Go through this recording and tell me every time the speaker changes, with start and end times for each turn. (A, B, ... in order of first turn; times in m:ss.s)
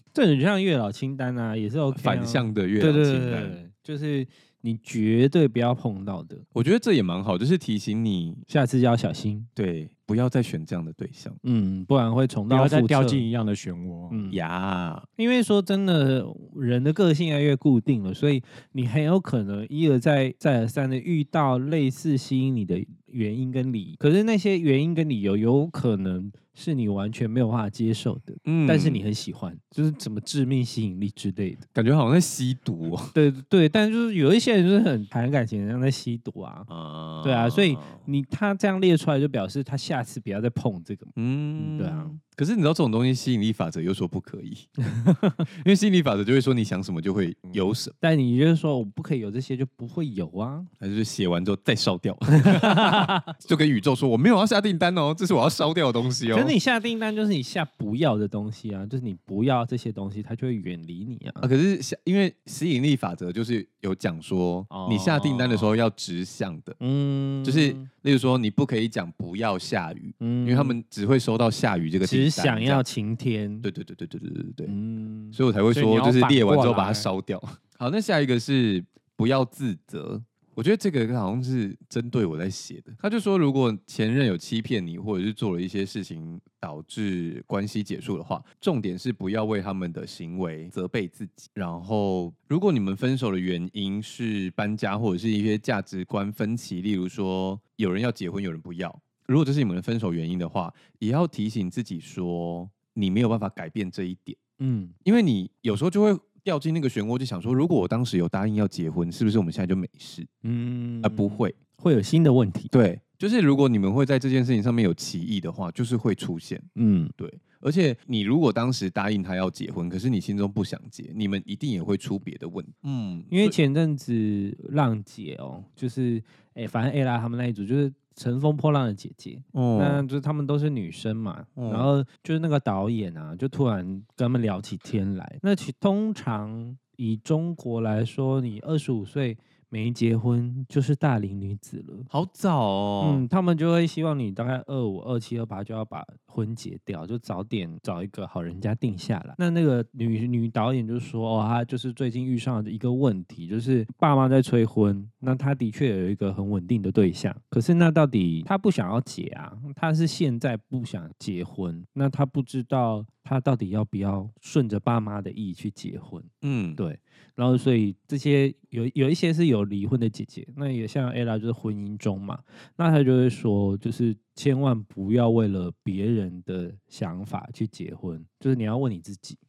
0:00.1-0:06.4 A
0:01.9-0:03.6 B
0:06.5-0:08.4 B
0:08.5-0:09.5 A
0:09.6-0:11.4 B
0:11.4-0:13.2 A
0:12.5-0:14.2 C
0:14.1-0:14.4 A
0:14.3-0:15.1 B
0:15.2-0:31.6 A
0:28.4-0:29.0 B
0:31.7-0:33.1 B
0:33.1-0:36.7 A
0:36.7-0:38.0 B
0:37.2-0:42.2 A
0:41.2-0:44.7 B
0:44.9-0:45.4 A
0:45.5-0:47.9 B
0:48.0-0:50.7 A
0:50.8-0:56.5 B
0:52.4-0:53.3 A
0:56.3-1:01.5 A
1:01.4-1:06.8 B
1:04.7-1:05.7 A
1:06.8-1:07.9 A
1:07.4-1:12.8 B
1:10.2-1:10.8 A
1:12.0-1:13.7 A
1:13.6-1:14.7 B
1:14.6-1:15.4 A
1:15.3-1:44.4 B
1:15.7-1:17.1 C
1:44.6-1:44.9 A
1:45.0-1:50.3 B
1:50.4-1:52.7 A
1:51.0-1:51.6 B
1:52.7-2:03.6 B
1:56.8-1:57.1 A
2:03.3-2:22.1 A
2:09.5-2:10.0 B
2:11.6-2:11.9 B
2:22.1-2:23.2 B
2:23.0-2:59.4 A
2:46.4-2:46.8 B